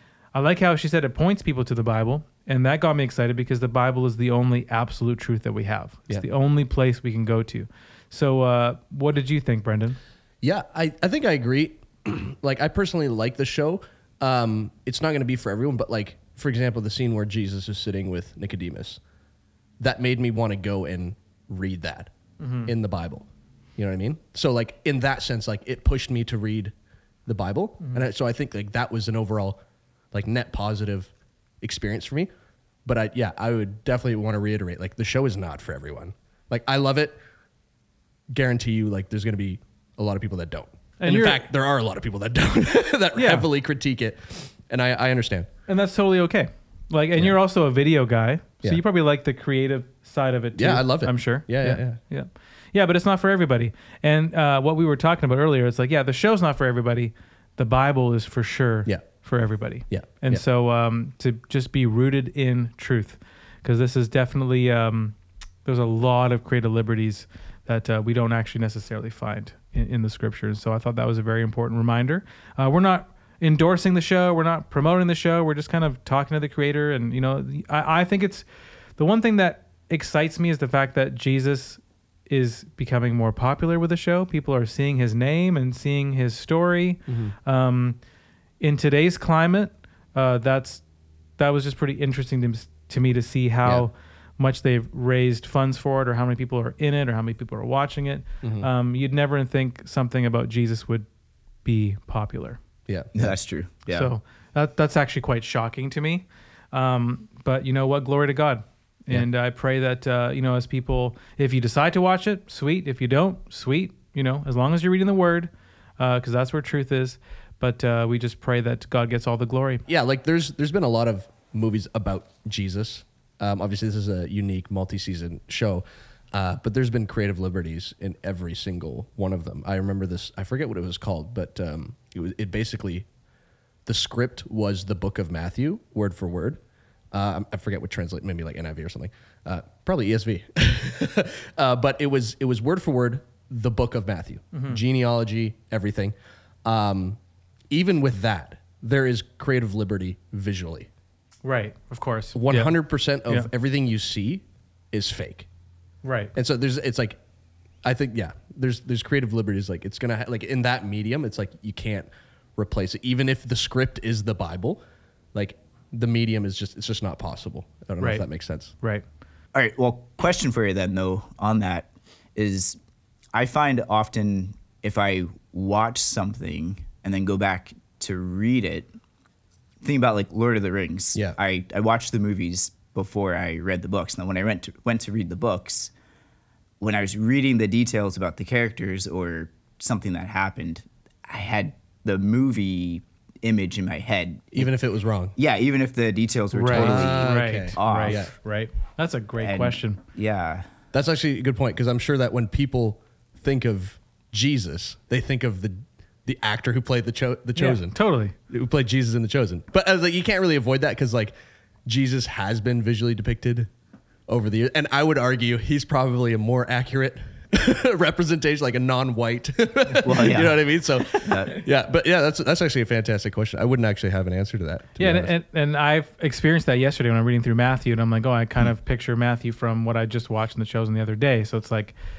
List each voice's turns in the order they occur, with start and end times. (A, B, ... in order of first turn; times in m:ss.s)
0:00.3-0:10.0 A
0:10.4-0:19.0 B
0:19.8-0:26.7 B
0:22.4-0:22.7 A
0:27.2-0:29.6 B
0:27.8-0:28.0 A
0:30.1-0:32.3 B
0:32.8-0:37.2 B
0:38.3-0:45.5 B
0:41.0-0:41.5 A
0:43.2-0:43.4 A
0:45.7-1:28.0 A
0:50.5-0:52.0 B
0:59.9-1:00.4 B
1:27.1-1:27.3 B
1:28.6-1:30.8 A
1:31.4-1:41.1 A
1:38.4-1:38.7 B
1:41.6-1:42.6 A
1:42.9-1:43.3 B
1:43.1-1:44.1 C
1:43.9-1:59.8 A
1:59.9-2:13.1 B
2:13.8-2:16.6 B
2:17.1-2:26.1 B
2:24.5-2:24.8 A
2:26.6-2:27.2 B
2:27.7-2:30.9 B
2:31.4-2:33.5 A
2:32.3-2:35.5 B
2:36.0-2:36.3 A
2:36.3-2:37.2 B
2:37.8-2:44.8 B
2:45.3-2:48.7 B
2:48.0-2:48.3 A
2:49.5-2:52.8 C
2:53.3-2:58.9 C
2:59.8-3:05.9 C
3:06.8-3:14.7 C
3:14.5-3:15.3 B
3:15.4-3:18.4 C
3:16.5-3:20.0 A
3:16.7-3:18.3 B
3:19.4-3:20.7 C
3:20.9-3:28.0 B
3:27.6-3:28.3 A
3:28.5-3:31.3 B
3:31.8-3:33.7 B
3:34.3-3:45.3 B
3:40.0-3:41.6 C
3:45.0-3:52.0 A